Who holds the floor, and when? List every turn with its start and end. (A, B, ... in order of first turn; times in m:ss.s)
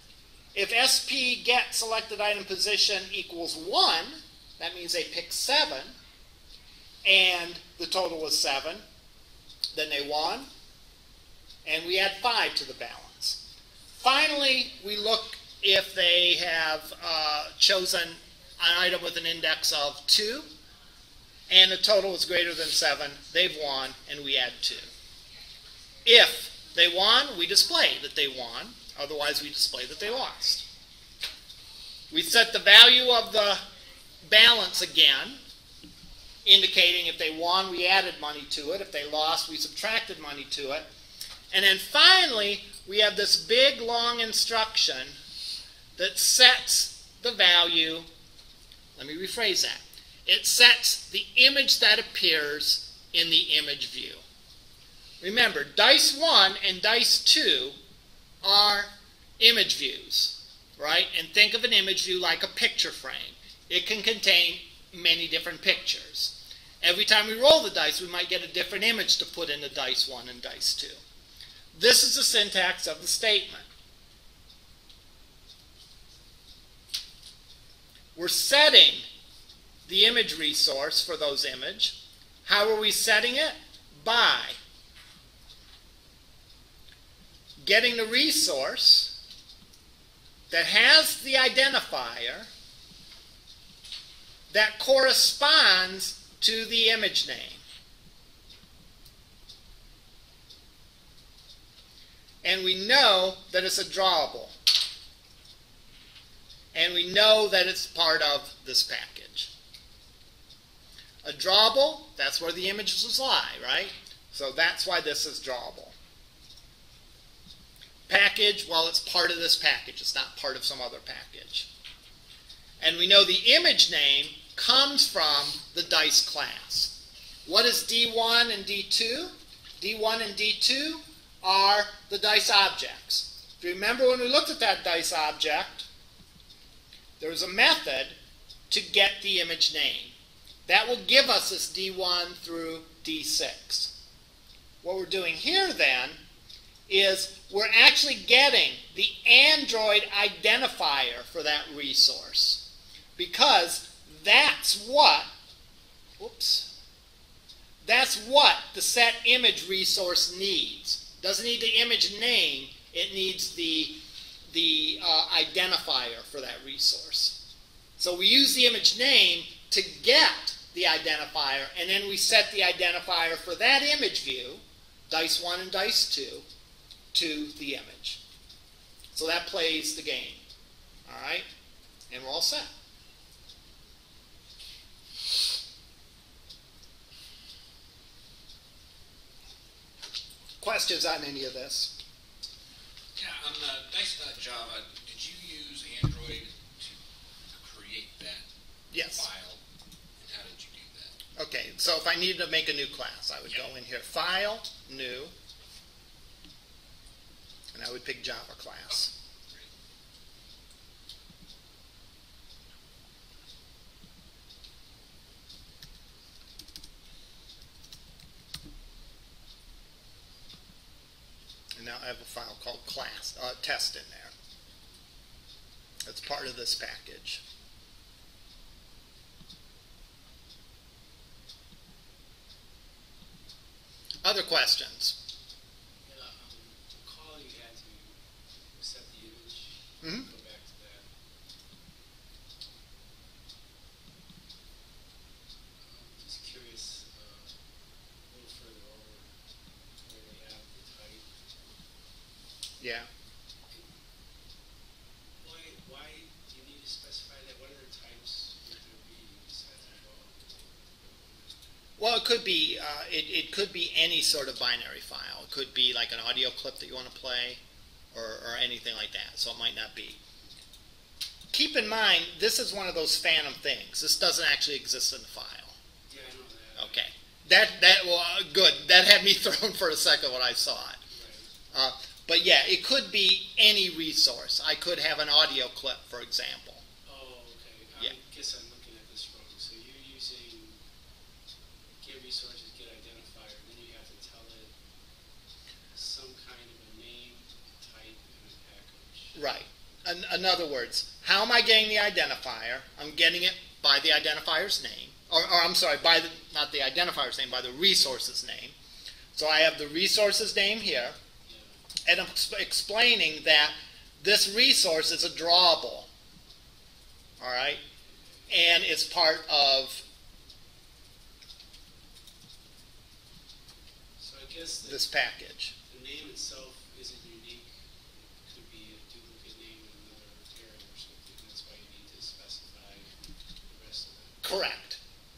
0:00.5-0:06.0 A
0:07.0-0:08.8 A
0:09.7-0:10.5 A
0:11.6-0:13.4 A
0:14.0-0:20.5 A
0:21.5-0:24.9 A
0:26.0-0:30.6 A
0:32.1-0:33.6 A
0:34.2-0:35.4 A
0:36.4-0:40.8 A
0:41.5-0:45.2 A
0:46.0-0:48.1 A
0:49.0-0:54.2 A
0:55.2-0:57.8 A
0:58.4-1:11.0 A
1:11.7-1:13.6 A
1:18.1-1:19.0 A
1:19.8-1:24.6 A
1:27.6-1:29.1 A
1:30.5-1:32.5 A
1:34.5-1:37.6 A
1:42.4-1:44.5 A
1:46.7-1:49.5 A
1:51.2-1:55.9 A
1:58.1-2:01.7 A
2:02.8-2:15.9 A
2:17.2-2:18.2 A
2:18.7-2:20.1 A
2:20.6-2:23.9 A
2:24.8-2:26.2 A
2:26.9-2:32.6 A
2:33.2-2:35.3 A
2:36.2-2:36.7 A
2:37.8-2:44.0 A
2:44.5-2:47.4 A
2:48.0-2:56.4 A
2:57.1-2:58.2 A
2:59.1-3:00.4 A
3:01.1-3:01.4 A
3:02.1-3:02.7 A
3:10.6-3:11.9 A
3:13.1-3:17.0 B
3:17.5-3:18.4 B
3:18.9-3:19.2 A
3:19.0-3:19.6 B
3:20.2-3:21.1 B
3:21.4-3:25.3 A
3:27.7-3:29.1 A
3:41.8-3:44.3 A
3:46.0-3:47.4 A
3:54.2-3:55.2 A
3:56.0-3:58.2 C
3:58.8-4:01.1 C
4:00.0-4:00.3 A
4:05.8-4:07.6 C
4:08.3-4:09.3 C
4:10.0-4:11.3 C
4:12.8-4:13.1 A
4:15.4-4:21.6 C
4:22.0-4:27.6 A
4:28.1-4:30.2 A
4:31.5-4:35.8 A
4:36.1-4:37.0 C
4:36.8-4:41.0 A
4:41.1-4:41.5 C
4:41.7-4:46.8 A
4:47.0-4:50.8 C
4:52.0-4:54.7 C
4:55.9-4:59.4 C
4:59.3-5:08.8 A
5:09.3-5:11.2 A
5:12.1-5:16.1 A
5:17.4-5:17.8 A
5:18.5-5:20.0 A
5:24.2-5:25.0 C
5:24.8-5:25.7 A
5:25.8-5:34.4 C
5:34.4-5:35.0 A